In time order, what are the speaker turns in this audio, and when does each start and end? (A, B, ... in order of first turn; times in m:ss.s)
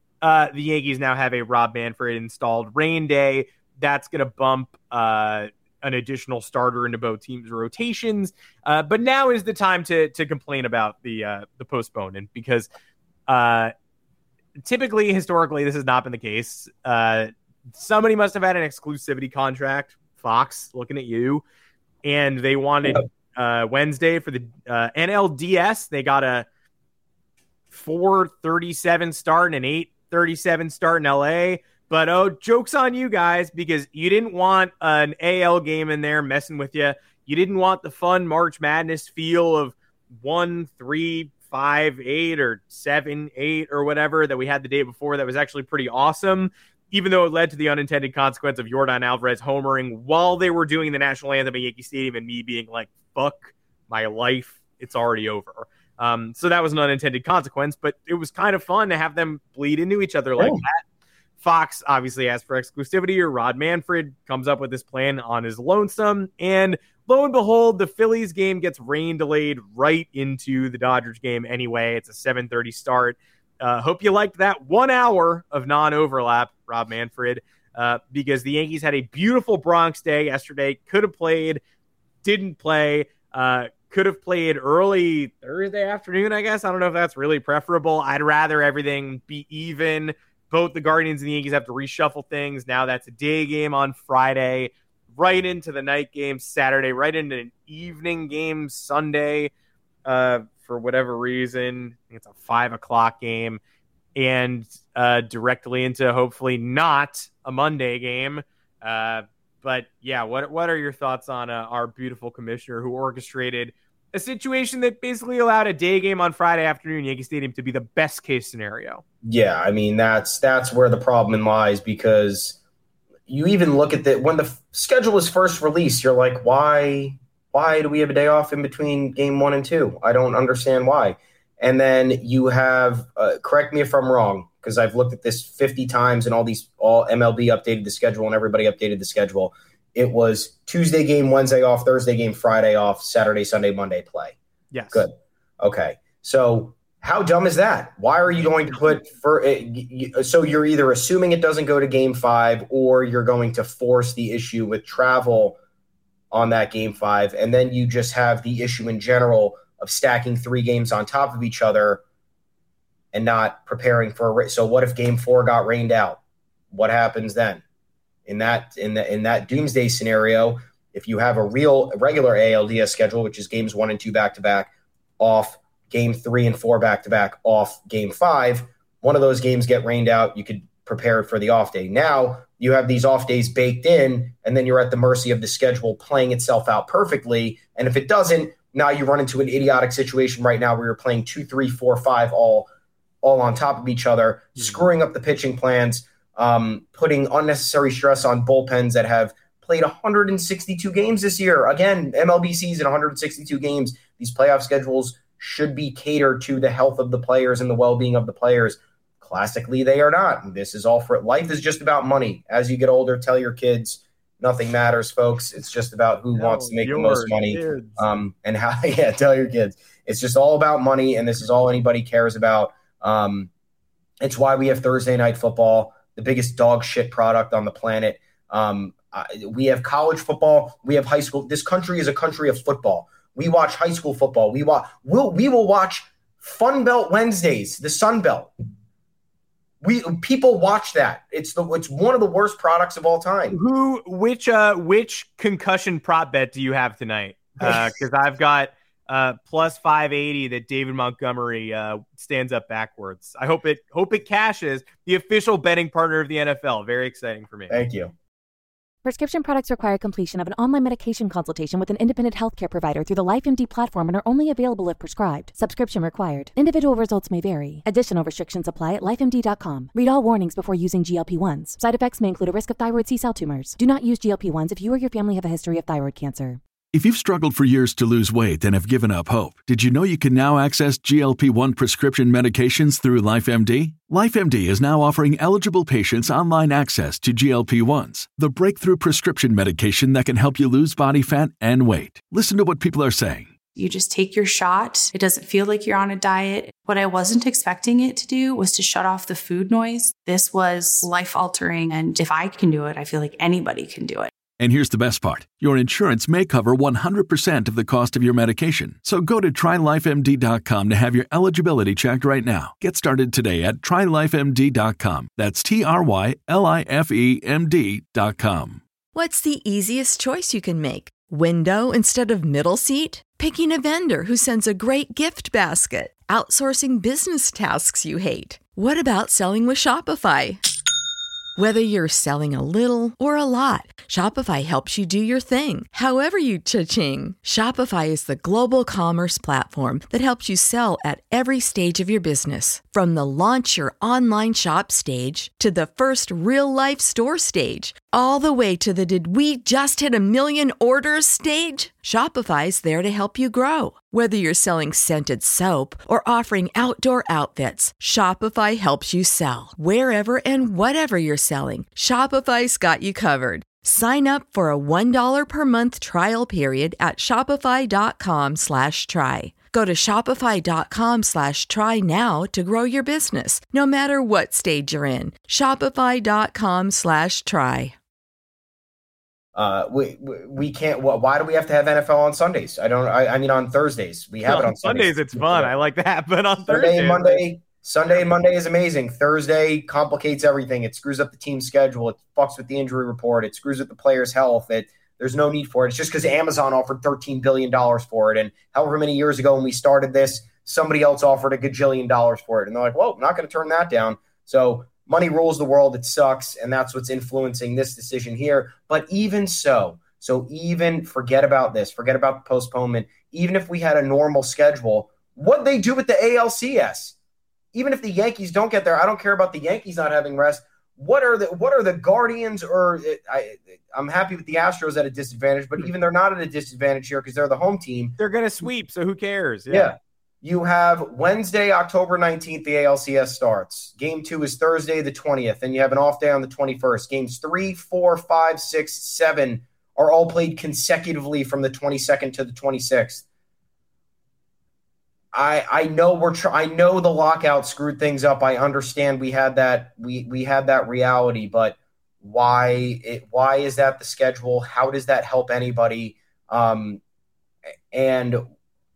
0:00.2-0:12.7 A
0:13.3-0:13.7 A
0:14.6-0:21.4 A
0:22.0-0:26.5 A
0:27.7-1:00.8 A
1:01.4-1:21.6 A
1:22.2-1:39.5 A
1:40.0-1:43.6 A
1:44.2-1:59.0 A
1:59.2-2:02.6 B
2:03.3-2:24.4 B
2:24.7-2:25.0 A
2:24.9-2:35.6 B
2:36.3-2:42.0 B
2:43.1-2:46.2 B
2:46.7-2:47.6 B
2:48.3-3:12.7 B
3:13.2-3:43.5 B
3:36.3-3:38.2 A
3:44.2-3:58.5 B
3:59.8-4:03.6 B
4:03.5-4:17.8 A
4:17.7-4:18.1 B
4:19.0-4:36.6 C
4:36.9-4:53.5 D
4:53.8-5:04.3 E
5:04.6-5:18.8 D
5:19.1-5:30.6 F
5:31.6-6:17.9 F
6:19.5-6:25.7 B
6:24.4-6:27.4 A
6:26.6-6:57.2 B
6:57.7-7:08.2 B
7:08.2-7:09.9 A
7:09.7-7:23.2 B
7:25.3-7:37.0 B
7:37.9-7:38.4 B